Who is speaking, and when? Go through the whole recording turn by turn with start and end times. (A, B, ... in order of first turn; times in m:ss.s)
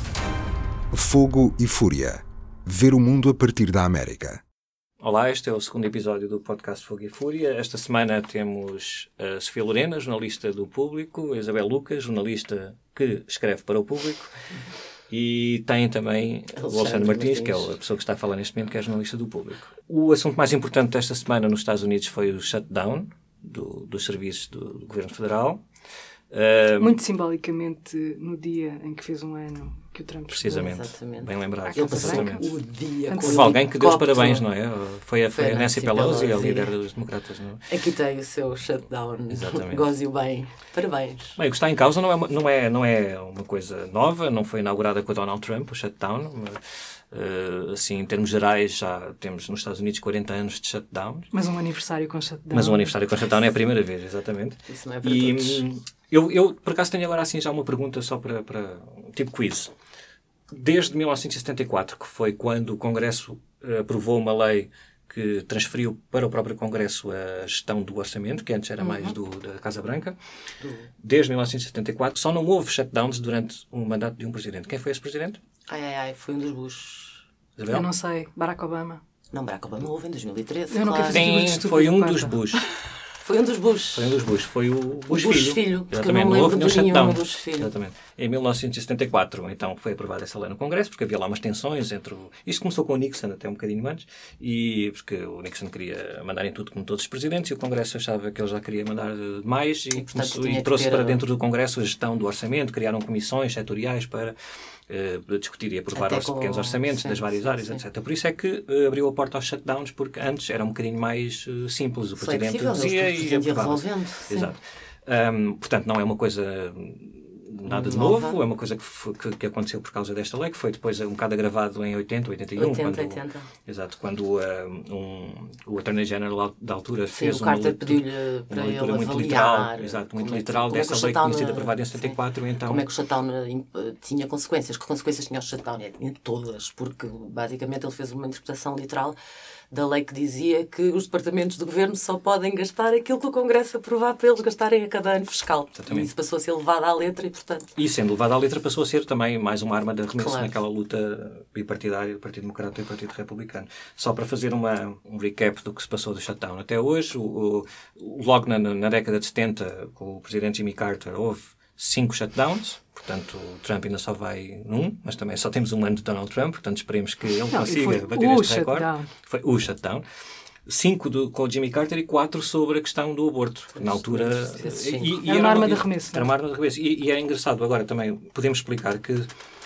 0:00.9-0:04.4 A
0:05.0-0:14.3 B
0:15.1-0:25.6 B
0:16.6-0:17.8 C
0:26.3-0:27.0 B
0:26.8-0:30.5 D
0:30.3-0:32.5 B
0:30.4-0:34.5 C
0:31.6-0:32.5 D
0:33.1-0:33.5 D
0:33.2-0:37.6 B
0:35.3-0:36.7 C
0:37.7-0:41.4 C
0:39.3-0:39.9 B
0:41.4-0:46.6 B
0:47.1-0:51.3 B
0:51.3-0:52.9 D
0:52.5-0:59.7 B
0:54.7-0:55.6 C
1:00.5-1:10.2 B
1:08.8-1:09.2 C
1:10.6-1:10.9 C
1:11.0-1:15.4 B
1:15.7-1:17.2 C
1:17.6-1:17.9 B
1:17.7-1:19.0 D
1:19.3-1:21.6 C
1:20.7-1:22.6 D
1:21.1-1:22.6 B
1:23.2-1:24.2 C
1:23.9-1:44.4 B
1:25.1-1:27.7 C
1:39.9-1:41.2 C
1:44.9-2:12.9 B
1:45.9-1:47.8 C
1:52.2-1:54.5 C
1:57.6-1:58.4 C
2:02.6-2:03.5 C
2:07.1-2:19.2 C
2:19.7-2:27.7 C
2:25.8-2:26.1 B
2:27.8-2:50.0 B
2:30.2-2:30.6 C
2:47.5-2:49.1 D
2:50.7-2:59.3 B
2:53.7-2:55.2 C
2:55.3-2:56.3 D